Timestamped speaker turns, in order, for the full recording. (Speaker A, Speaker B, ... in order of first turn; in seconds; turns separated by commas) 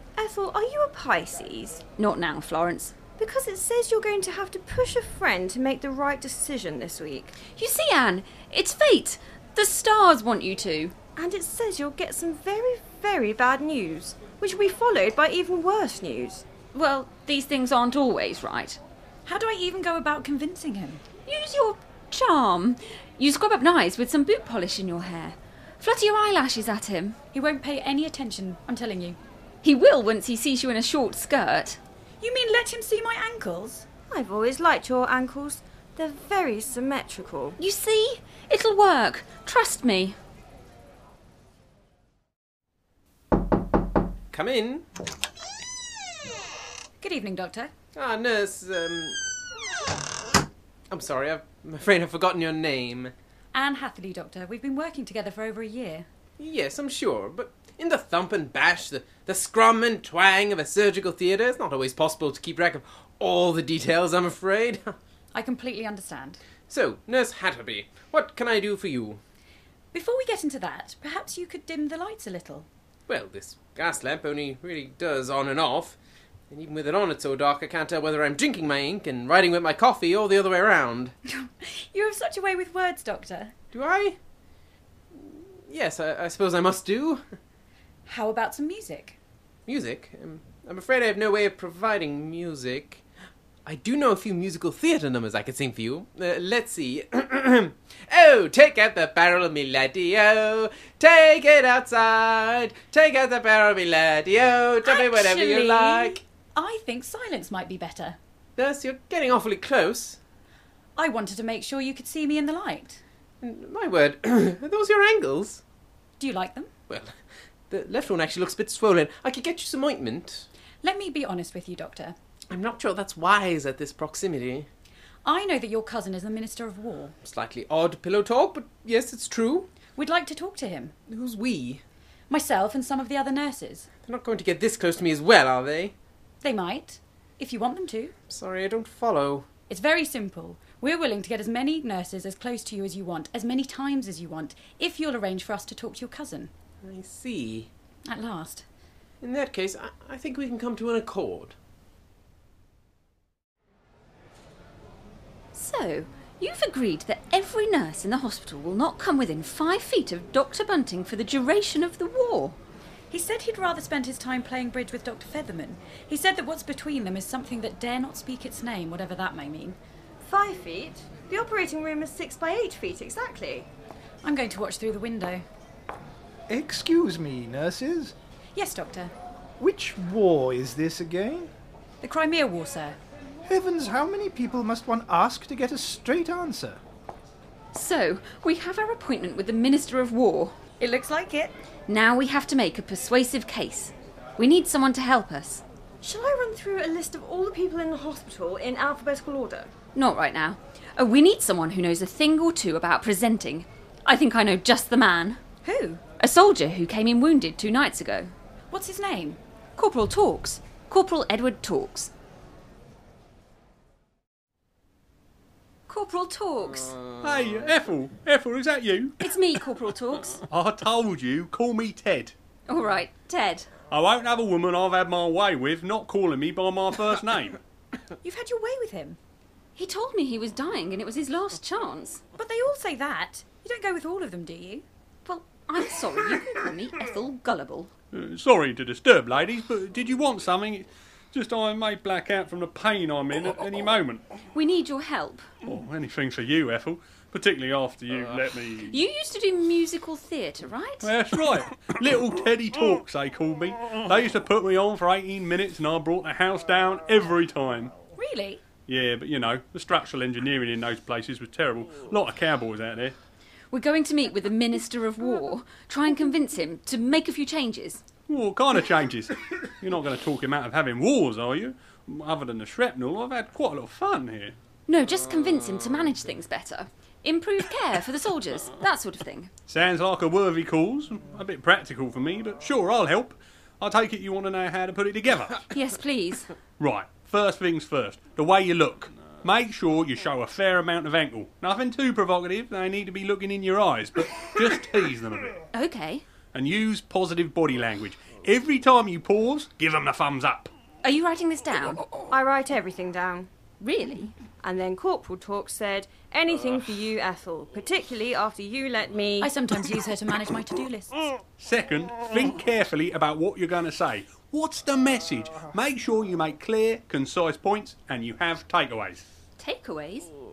Speaker A: 0.1-1.8, Speaker B: 1.9-3.0, Speaker A: 3.2-7.3, Speaker B: 7.5-10.9, Speaker A: 11.2-16.4, Speaker B: 16.7-18.8, Speaker C: 19.2-21.0, Speaker B: 21.2-27.2, Speaker C: 27.3-29.2, Speaker B: 29.6-31.8, Speaker C: 32.2-33.9, Speaker A: 34.1-37.5, Speaker B: 37.6-40.1, Speaker D: 44.3-44.9, Speaker C: 47.0-47.7, Speaker D: 47.9-49.3, Speaker D: 50.9-53.1, Speaker C: 53.5-56.0, Speaker D: 56.4-64.9, Speaker C: 65.3-66.4, Speaker D: 66.7-69.2, Speaker C: 69.9-72.7, Speaker D: 73.1-76.0, Speaker D: 76.5-81.1, Speaker C: 81.3-83.5, Speaker D: 83.7-84.2, Speaker D: 85.1-87.2, Speaker C: 88.0-89.2, Speaker D: 89.7-93.0, Speaker D: 93.7-106.2, Speaker C: 104.8-108.2, Speaker D: 108.6-110.2, Speaker C: 111.0-113.0, Speaker D: 113.4-115.6, Speaker C: 116.2-116.7, Speaker D: 116.9-117.1, Speaker D: 117.7-120.5, Speaker C: 120.8-122.2, Speaker D: 122.5-124.7, Speaker C: 125.2-127.1, Speaker D: 127.2-129.7, Speaker C: 129.9-130.9, Speaker D: 131.1-131.8, Speaker C: 132.3-133.9, Speaker D: 134.0-135.9, Speaker C: 136.4-138.1, Speaker D: 138.3-139.5, Speaker C: 139.7-146.5, Speaker D: 146.8-147.7, Speaker C: 148.1-148.6, Speaker D: 149.2-151.6, Speaker B: 155.5-162.6, Speaker C: 163.1-169.8, Speaker A: 170.2-173.7, Speaker C: 174.2-175.4, Speaker E: 176.5-178.1, Speaker C: 178.5-179.1, Speaker E: 179.6-181.5, Speaker C: 182.0-183.0, Speaker E: 183.5-186.8, Speaker B: 187.7-190.5, Speaker C: 190.8-191.5, Speaker B: 191.9-195.6, Speaker A: 196.0-199.7, Speaker B: 199.9-205.4, Speaker A: 205.6-206.0, Speaker B: 206.2-208.3, Speaker C: 208.7-209.4, Speaker B: 209.8-212.1, Speaker B: 215.9-217.0, Speaker F: 217.1-219.3, Speaker B: 219.2-220.4, Speaker F: 220.3-222.3, Speaker B: 222.7-223.7, Speaker F: 223.9-227.6, Speaker C: 228.2-229.2, Speaker B: 229.8-232.2, Speaker C: 232.4-234.8, Speaker B: 235.2-237.9, Speaker F: 238.1-244.2, Speaker B: 244.5-245.5, Speaker F: 245.6-249.0, Speaker B: 248.9-251.1, Speaker F: 251.0-257.9, Speaker C: 258.1-258.6, Speaker F: 258.7-263.1, Speaker B: 263.7-268.0, Speaker F: 268.3-274.6, Speaker B: 274.9-279.5, Speaker F: 279.7-285.7, Speaker B: 285.7-286.5, Speaker F: 286.8-295.6, Speaker B: 295.7-296.2, Speaker F: 296.5-300.7, Speaker B: 301.0-302.0, Speaker A: 302.3-303.5, Speaker B: 303.8-304.3, Speaker A: 304.6-309.5, Speaker C: 309.4-311.3, Speaker F: 311.6-319.2, Speaker B: 319.6-320.3